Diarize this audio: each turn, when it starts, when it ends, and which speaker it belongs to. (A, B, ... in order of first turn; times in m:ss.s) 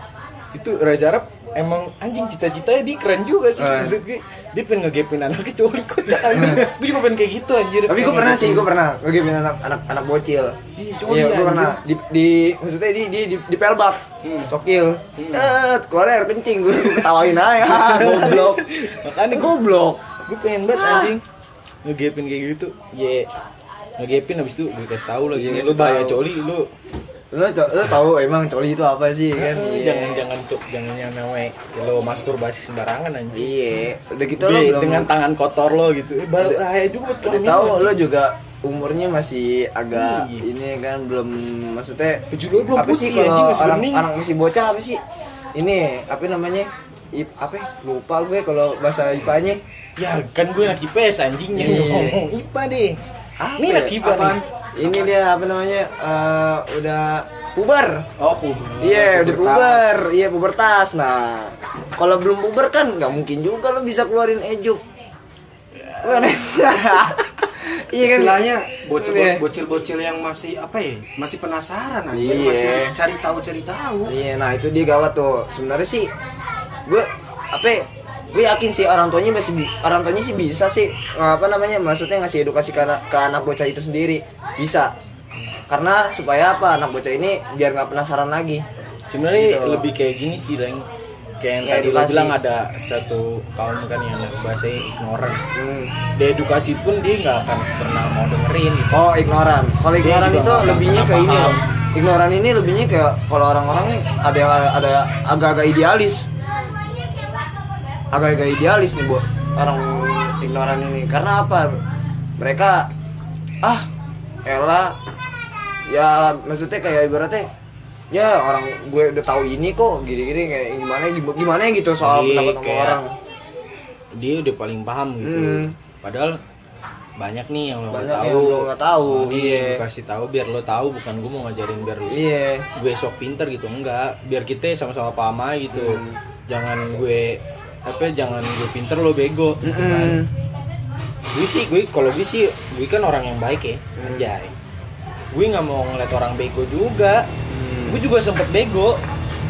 0:00.5-0:08.7 A
0:03.6-0:04.0 B
0:06.3-0:06.7 B
0:07.9-0:18.7 B
0:10.8-0:11.8 A
0:14.2-0:14.5 C
0:15.2-0:15.5 C
0:17.6-0:19.5 A
0:19.3-0:20.0 B
0:20.2-0:21.2 A
0:20.7-0:21.2 B
0:21.8-0:23.3 A
0:24.0-0:26.7 A
0:25.3-0:26.2 B
0:27.3-0:30.2 B
0:29.3-0:33.5 A
0:33.3-0:35.1 B
0:34.4-0:38.0 A
0:37.2-0:45.0 B
0:39.9-0:40.4 A
0:42.3-0:44.1 A
0:45.5-0:49.6 B
0:50.0-0:53.0 A
0:51.5-0:52.2 B
0:53.4-0:58.1 B
0:53.6-0:54.4 A
0:54.0-0:54.4 C
0:58.2-0:59.2 C
0:58.8-1:04.8 B
0:58.9-0:59.8 A
1:05.9-1:06.3 A
1:06.0-1:08.4 B
1:08.0-1:14.1 C
1:09.0-1:09.4 B
1:12.1-1:12.9 B
1:14.1-1:16.1 B
1:16.8-1:24.9 B
1:25.7-1:28.6 B
1:29.1-1:30.9 A
1:29.3-1:29.9 B
1:31.4-1:35.4 A
1:31.6-1:32.3 B
1:35.5-1:35.9 B
1:36.1-1:39.1 A
1:38.9-1:46.3 B
1:40.0-1:41.6 A
1:48.1-1:51.8 B
1:52.4-1:52.9 B
1:53.6-1:53.9 B
1:54.4-1:55.0 B
1:55.9-1:57.5 B
1:58.1-2:03.2 B
2:02.0-2:03.0 A
2:04.2-2:06.4 A
2:05.2-2:05.7 B
2:07.2-2:20.2 A
2:07.9-2:09.8 B
2:12.1-2:12.7 B
2:15.7-2:16.2 B
2:19.6-2:20.3 B
2:21.3-2:24.5 A
2:24.0-2:24.3 B
2:25.3-2:27.3 A
2:27.5-2:28.0 B
2:27.9-2:29.0 A